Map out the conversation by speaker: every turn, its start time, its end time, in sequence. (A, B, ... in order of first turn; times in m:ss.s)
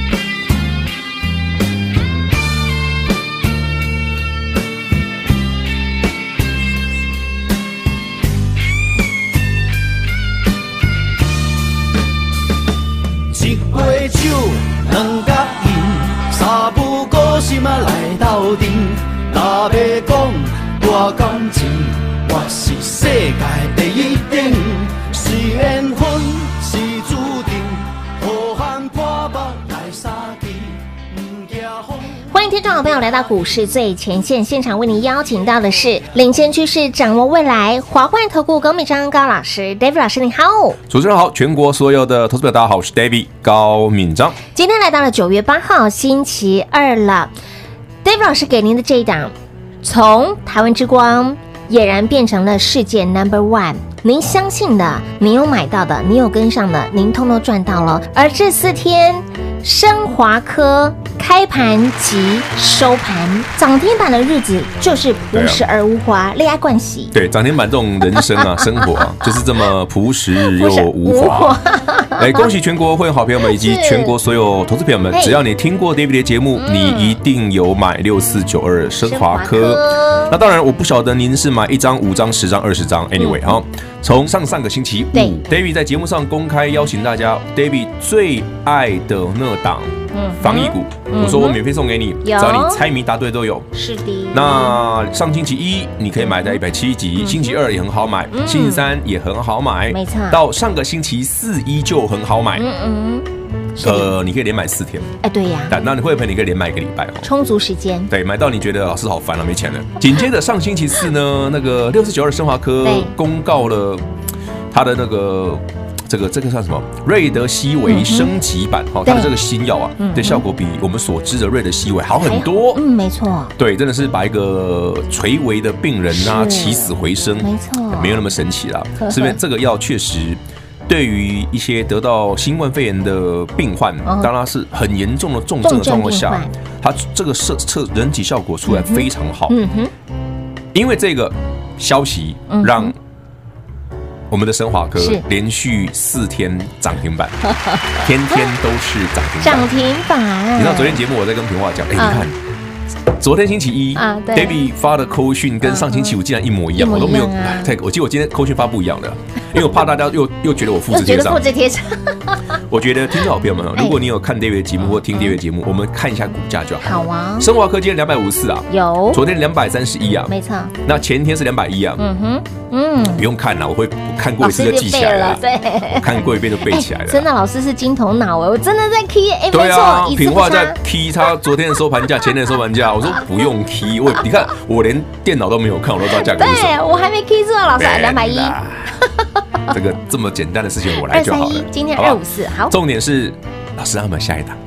0:13.3-0:32.2 A
0:32.3-0:40.8 B
0:40.9-0:44.4 C
0:44.5-0:47.3 B
0:48.0-1:07.1 B
1:05.3-1:05.6 C
1:07.1-1:11.6 C
1:08.2-1:09.4 B
1:10.4-1:12.5 B
1:12.2-1:33.7 C
1:13.4-1:14.2 B
1:15.1-1:15.4 B
1:16.6-1:17.2 B
1:19.0-1:20.4 B
1:23.2-1:23.5 B
1:30.1-1:31.6 B
1:32.2-1:32.8 B
1:33.7-1:34.8 B
1:34.3-1:42.6 C
1:36.3-1:36.6 B
1:37.2-1:37.5 B
1:38.3-1:38.9 B
1:39.9-1:40.4 B
1:42.6-1:44.1 B
1:43.8-1:45.1 C
1:45.2-1:45.8 B
1:45.7-1:47.3 C
1:47.2-1:48.1 B
1:48.1-1:54.0 C
1:52.8-1:53.1 B
1:54.7-2:02.8 C
1:57.9-1:58.3 B
1:59.0-1:59.3 B
2:00.0-2:00.4 B
2:02.2-2:03.5 B
2:03.6-2:19.6 C
2:06.1-2:08.3 B
2:09.0-2:09.4 B
2:14.0-2:14.3 B
2:15.6-2:16.5 B
2:18.7-2:19.9 B
2:20.7-2:23.0 C
2:22.5-2:22.9 B
2:24.3-2:27.4 C
2:25.0-2:25.2 B
2:27.5-2:28.1 B
2:28.0-2:29.7 C
2:29.4-2:31.0 B
2:30.6-2:32.4 C
2:32.0-2:32.3 B
2:33.1-2:41.4 C
2:34.0-2:34.6 B
2:35.6-2:36.2 B
2:36.8-2:37.7 B
2:40.9-2:42.6 B
2:42.7-2:52.0 C
2:44.8-2:45.4 B
2:46.8-2:47.5 B
2:48.7-2:49.2 B
2:50.3-2:50.7 B
2:52.0-2:53.3 B
2:53.1-2:57.3 C
2:54.4-3:00.8 B
2:59.5-3:06.8 C
3:06.1-3:08.6 B
3:07.8-3:09.0 C
3:09.7-3:14.6 C
3:11.0-3:12.8 B